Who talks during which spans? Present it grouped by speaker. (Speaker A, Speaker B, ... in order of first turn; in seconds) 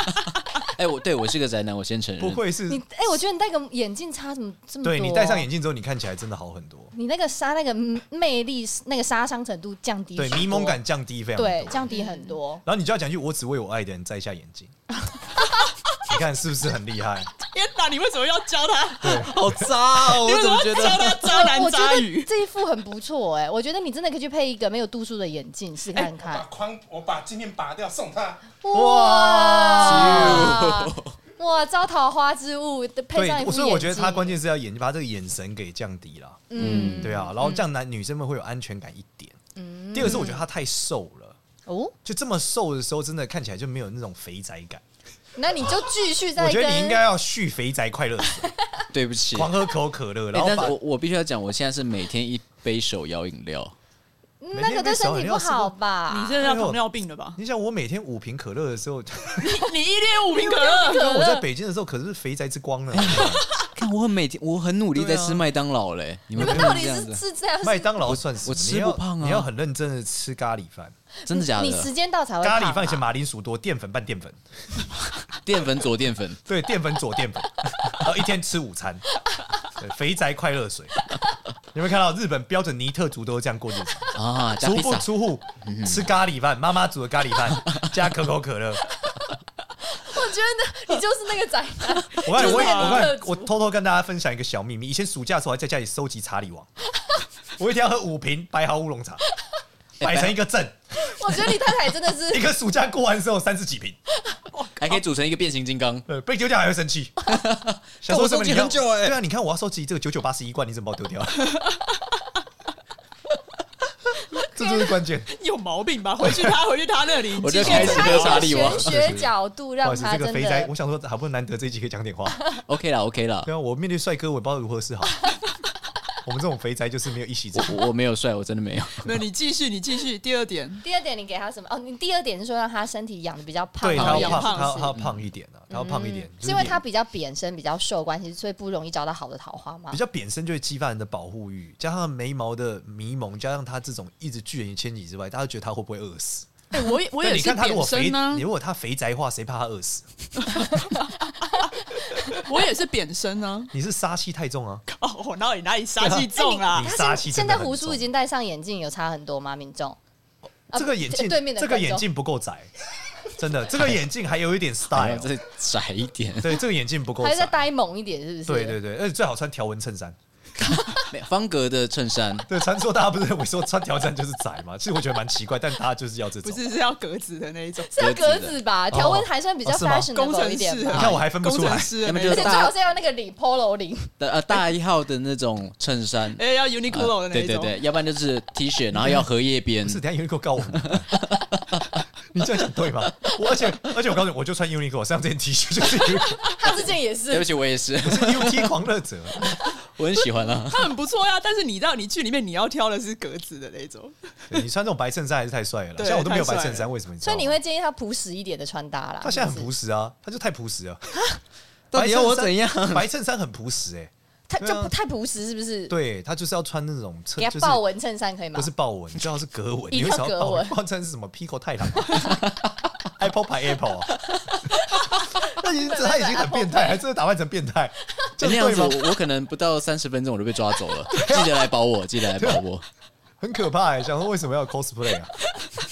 Speaker A: 0.6-2.5, 19.2-21.2, 29.8-31.2, 36.6-37.2, 40.0-40.2, 48.9-49.6, 50.3-53.7, 62.9-67.2, 68.0-69.5, 71.3-71.9, 75.3-76.4, 84.2-85.1, 85.6-86.1, 100.0-100.4, 104.8-106.1, 107.3-109.2, 117.4-119.2, 122.7-123.5, 127.5-129.1, 133.9-134.4, 134.9-135.2, 164.9-166.6, 171.0-172.5, 178.0-178.6, 180.9-181.2, 182.0-182.8, 184.2-190.0, 190.7-191.9, 197.3-198.8, 199.5-200.9, 211.9-213.1, 228.4-232.8
Speaker B: 2.2-2.8, 4.8-6.9, 10.2-11.9, 12.6-14.7, 16.0-17.3, 19.0-19.9, 28.7-30.6, 33.1-39.4, 39.9-41.4, 42.0-44.8, 46.4-48.5, 49.3-50.8, 54.5-55.7, 56.4-56.8, 57.4-59.6, 61.0-63.4, 65.0-65.5, 66.4-66.8, 67.6-71.0, 72.4-74.9, 76.5-79.0, 79.8-81.0, 81.7-88.8, 92.2-96.7, 97.6-99.2, 100.0-101.6, 102.2-104.0, 106.1-107.3, 108.0-111.6, 114.3-115.3, 116.2-116.6, 117.6-119.3, 119.8-122.4, 123.5-125.2, 126.2-127.8, 133.8-136.8, 139.9-146.5, 147.1-150.1, 153.7-154.8, 156.0-158.1, 160.7-162.7, 163.3-165.3, 166.4-167.6, 168.5-170.2, 172.5-176.7, 178.9-180.1, 180.9-182.0, 189.0-189.2, 189.8-191.1, 192.3-196.6, 198.0-199.5, 204.5-207.6, 209.2-211.3, 211.9-214.9, 215.9-217.8, 218.5-222.4, 223.0-224.1, 225.4-229.1, 231.2-231.5, 232.4-232.6, 233.4-235.5
Speaker C: 2.7-5.5, 6.9-10.8, 11.4-12.6, 21.2-26.5, 28.6-34.4, 36.5-37.6, 39.6-40.4, 41.7-42.0, 45.4-47.0, 54.4-56.4, 60.3-61.5, 66.3-68.0, 71.3-73.0, 89.9-93.5, 101.0-102.5, 117.7-120.7, 130.8-134.8, 135.7-140.0, 156.3-160.0, 160.7-162.0, 167.2-168.8, 177.9-181.2, 182.2-184.1, 196.2-197.5, 207.2-209.7, 214.5-216.0, 217.4-218.7, 219.9-220.8, 224.7-227.0
Speaker D: 17.5-22.3, 56.1-57.4, 59.4-61.2, 92.4-93.1, 115.3-118.7, 129.0-130.8, 134.0-134.9, 146.7-148.5, 152.3-153.7, 154.9-156.9, 176.4-177.9, 180.1-182.6, 186.4-187.8, 200.7-204.2, 206.0-206.9
Speaker E: 26.0-28.5